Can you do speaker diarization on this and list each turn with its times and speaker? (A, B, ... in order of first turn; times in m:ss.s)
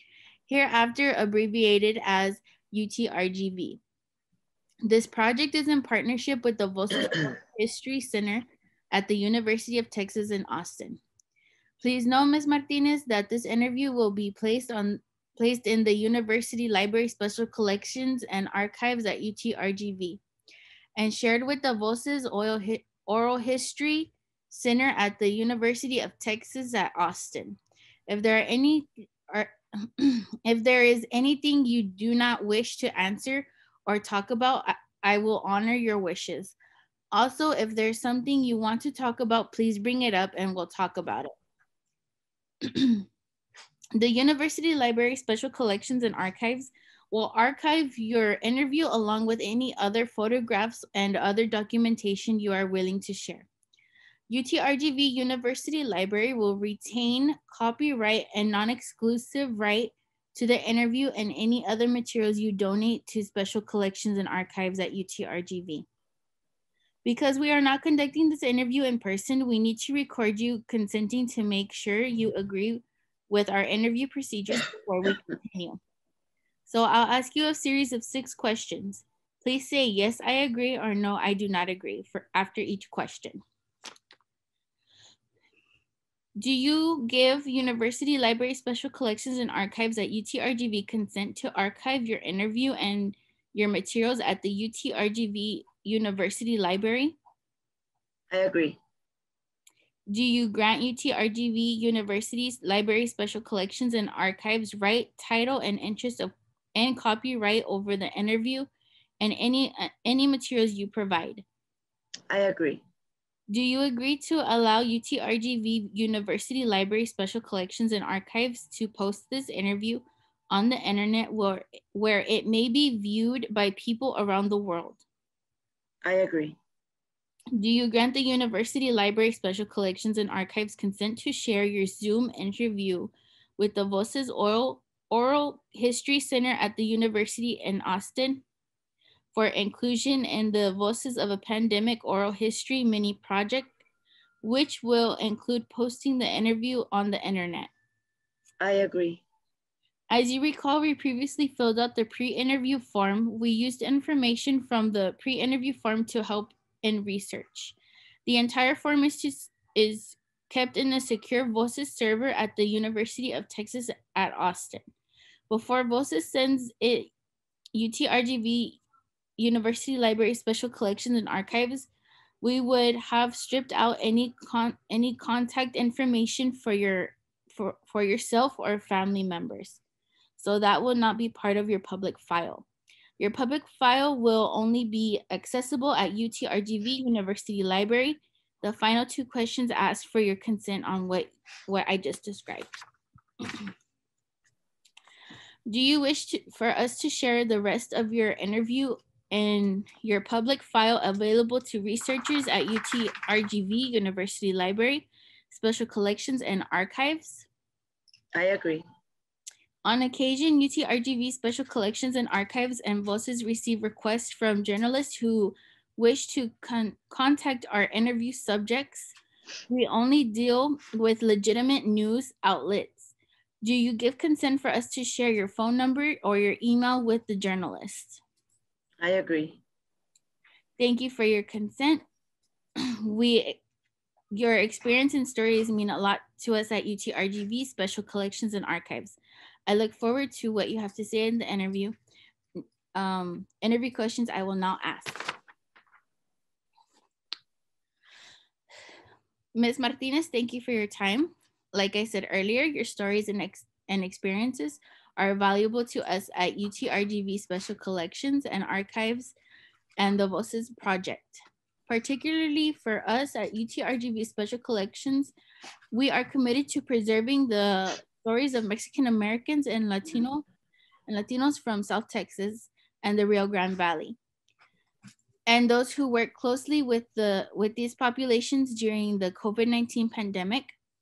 0:00.5-0:03.8 A
0:04.8-0:11.0 A
0:11.8-0:20.2 A
0:21.0-0:36.6 A
0:37.1-0:41.4 A
0:42.6-0:43.1 A
0:44.0-0:53.5 A
0:54.3-1:05.9 A
1:07.0-1:15.8 A
1:16.7-1:23.4 A
1:26.4-1:37.2 A
1:38.3-1:38.8 B
1:40.1-1:51.4 A
1:52.3-1:52.8 B
1:53.5-2:05.0 A
2:06.0-2:06.6 B
2:07.6-2:18.4 A
2:19.3-2:23.8 A
2:24.4-2:27.7 A
2:28.6-2:29.2 B
2:30.1-2:44.8 A
2:45.5-2:47.1 A
2:47.7-2:48.8 A
2:49.4-2:51.9 A
2:52.4-2:59.8 A
3:00.4-3:02.7 A
3:03.2-3:12.7 A
3:15.7-3:27.5 A
3:28.3-3:28.8 B
3:29.8-3:39.2 A
3:39.7-3:48.2 A
3:49.0-3:49.6 B
3:50.8-3:52.0 A
3:52.9-3:53.6 A
3:54.3-4:02.0 A
4:02.6-4:05.4 A
4:09.6-4:19.4 A
4:20.0-4:25.3 A
4:25.9-4:30.5 A
4:31.1-4:34.2 A
4:35.5-4:40.8 A